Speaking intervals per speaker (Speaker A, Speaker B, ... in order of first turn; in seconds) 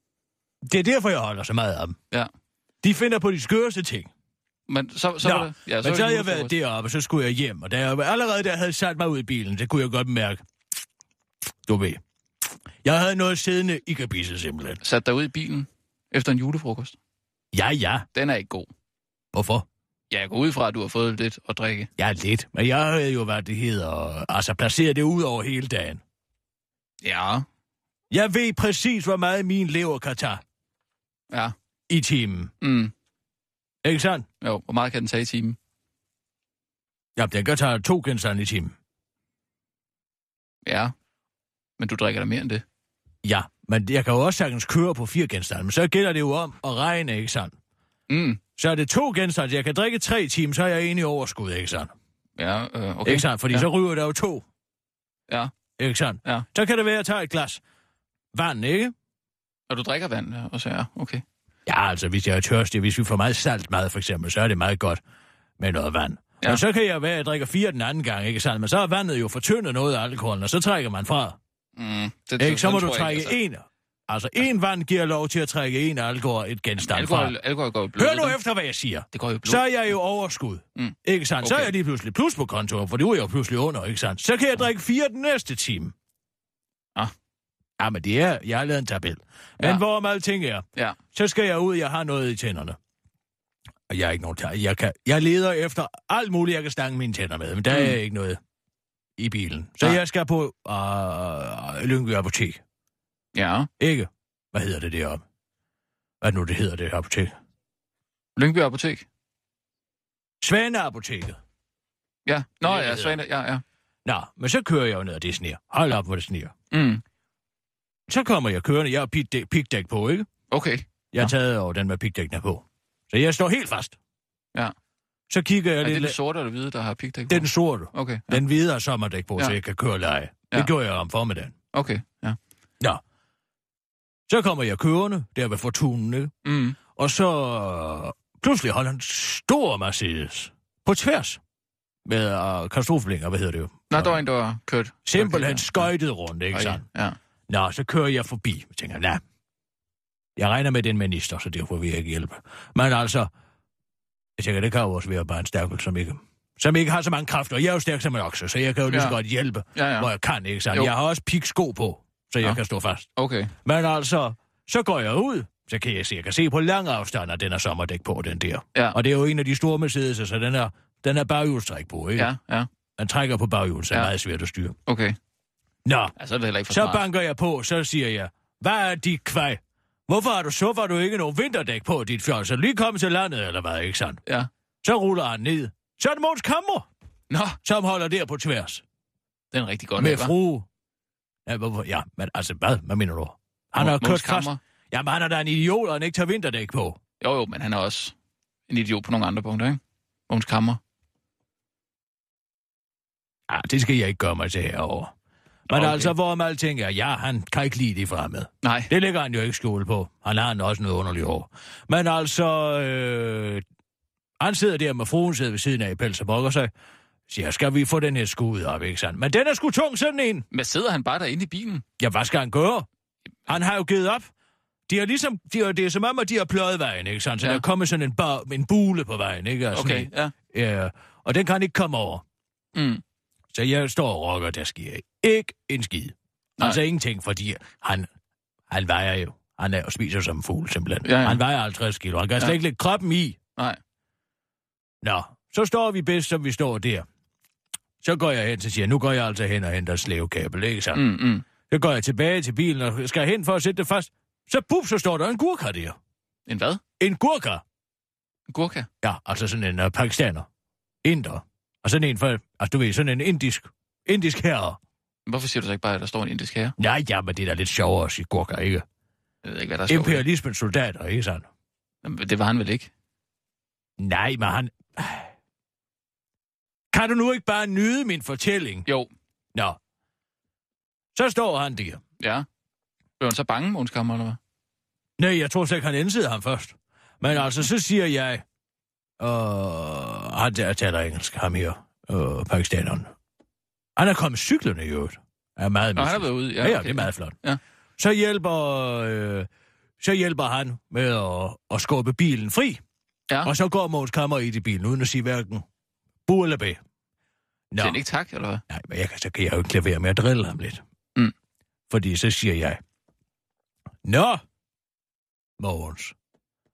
Speaker A: 0.6-2.0, 2.8-4.1, 5.2-10.4, 11.7-12.0, 12.8-14.8, 17.5-18.1, 19.3-19.7, 22.0-26.0, 28.1-30.4, 31.9-32.5, 33.8-34.3, 37.2-38.8, 43.2-47.5, 48.6-51.9, 53.0-54.5, 55.8-57.6, 58.3-58.9, 61.7-65.0, 65.6-71.4, 72.4-77.3, 78.0-85.9, 87.8-92.8, 93.9-98.4, 99.2-102.6, 103.8-105.2, 106.2-107.3, 110.4-111.4, 112.6-113.2, 114.0-116.5, 118.1-120.3, 121.1-124.0, 125.3-126.2, 127.3-131.5, 134.3-136.3, 136.9-141.4, 142.1-144.2, 145.1-146.8, 147.5-149.2, 150.4-153.3, 154.4-163.1, 163.6-172.3, 173.0-174.8, 175.8-176.1, 176.7-184.2, 184.8-186.9, 187.6-188.8, 190.0-190.7, 191.5-197.0, 203.5-205.1, 205.7-213.6, 214.4-216.7, 217.3-220.5, 222.0-222.9, 223.5-224.3, 224.9-232.2, 233.5-238.1, 238.7-243.4, 245.0-247.1, 248.0-251.2, 251.7-256.0, 257.0-257.6, 259.0-260.5, 261.0-264.8, 266.8-268.9, 269.9-271.5, 274.0-275.3, 276.9-278.9, 281.1-282.0, 285.2-288.4, 289.2-293.1, 294.0-297.4, 298.0-299.5, 300.0-302.8, 303.4-305.6, 306.3-306.8, 307.7-308.0, 308.7-310.8, 311.9-312.8, 314.1-314.4, 315.6-316.1
Speaker B: 4.7-6.6, 14.8-17.0, 18.1-18.7, 20.1-21.9, 27.0-27.5, 32.6-32.9, 34.4-35.6, 40.7-40.9, 41.8-42.6, 48.1-48.4, 52.4-53.7, 59.7-61.2, 71.8-73.4, 76.8-78.4, 79.1-79.8, 80.8-81.7, 97.7-98.0, 103.3-103.7, 108.4-109.0, 112.3-113.6, 116.7-117.0, 120.5-121.3, 125.8-128.4, 131.7-132.4, 136.4-136.8, 143.9-145.9, 146.5-147.2, 158.9-159.2, 159.8-160.1, 163.2-163.5, 172.2-172.7, 174.9-175.2, 176.2-177.1, 187.3-187.6, 189.5-190.3, 193.8-194.6, 197.2-198.1, 198.7-200.8, 205.7-206.1, 208.6-208.9, 220.5-221.8, 229.7-230.3, 232.8-233.0, 241.0-241.4, 250.9-251.4, 256.5-256.8, 258.5-258.9, 265.3-266.8, 269.4-270.3, 272.0-272.9, 282.2-282.5, 283.2-284.4, 296.0-297.6, 307.8-308.6